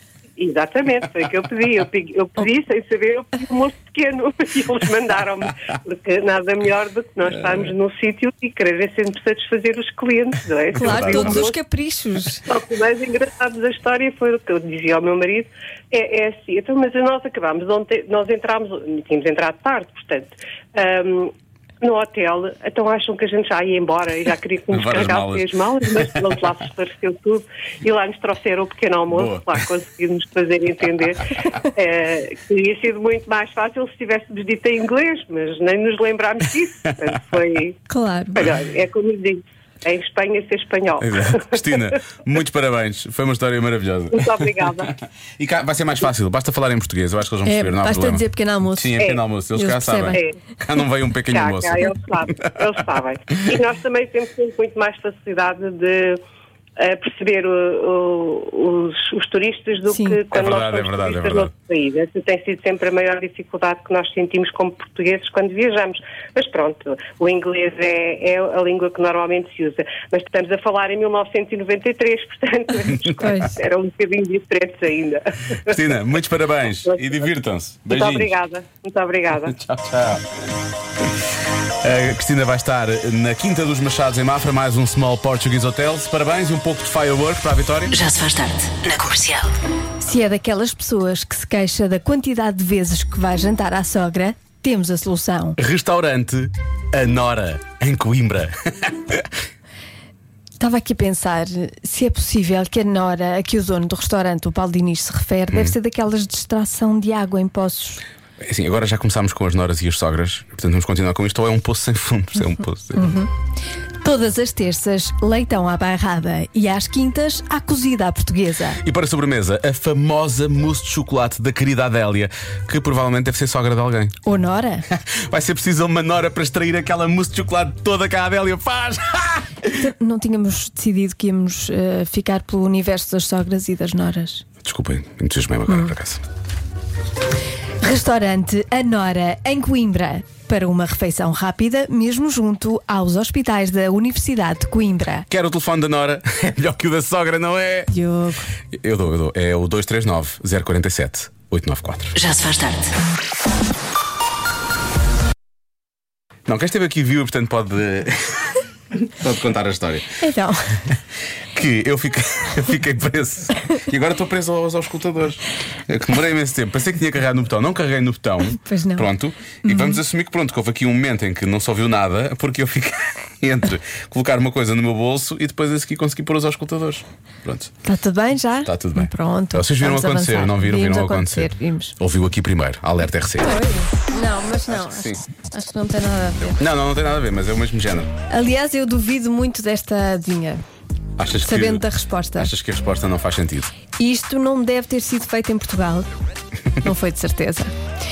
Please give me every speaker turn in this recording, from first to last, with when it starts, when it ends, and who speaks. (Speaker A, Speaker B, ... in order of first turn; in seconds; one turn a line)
Speaker A: 0.4-11.6
Speaker B: 10.7-11.4
Speaker C: 10.7-12.4
Speaker A: 12.4-37.8
Speaker B: 24.7-26.2
Speaker B: 29.1-29.5
Speaker C: 37.9-38.4
Speaker A: 38.4-41.9
Speaker B: 41.0-52.0
Speaker A: 44.1-44.9
Speaker C: 47.4-50.2
Speaker A: 51.3-56.2
Speaker A: 56.8-75.8
Speaker C: 59.9-60.2
Speaker B: 60.3-61.5
Speaker C: 73.2-73.5
Speaker B: 75.7-78.3
Speaker A: 76.8-77.3
Speaker A: 77.9-79.5
Speaker B: 79.5-80.3
Speaker B: 81.8-87.9
Speaker D: 87.9-89.5
Speaker C: 90.0-95.6
Speaker B: 95.6-99.3
Speaker C: 100.6-108.0
Speaker B: 108.4-113.1
Speaker C: 112.9-113.3
Speaker C: 114.0-118.8
Speaker B: 118.8-124.1
Speaker C: 124.2-124.8
Speaker B: 124.9-129.5
Speaker C: 129.7-134.4
Speaker B: 134.6-136.2
Speaker C: 137.8-145.3
Speaker B: 145.3-147.9
Speaker C: 147.9-148.4
Speaker B: 148.7-152.2
Speaker D: 152.1-152.9
Speaker B: 156.5-160.2
Speaker C: 160.2-160.8
Speaker B: 161.5-177.7
Speaker C: 168.5-169.1
Speaker C: 169.6-170.0
Speaker C: 177.8-181.9
Speaker B: 178.6-183.6
Speaker C: 183.4-186.6
Speaker B: 184.7-185.2
Speaker B: 186.6-188.1
Speaker C: 188.3-190.6
Speaker B: 191.2-191.8
Speaker C: 191.4-192.5
Speaker B: 192.3-193.7
Speaker C: 194.0-196.1
Speaker C: 196.8-197.7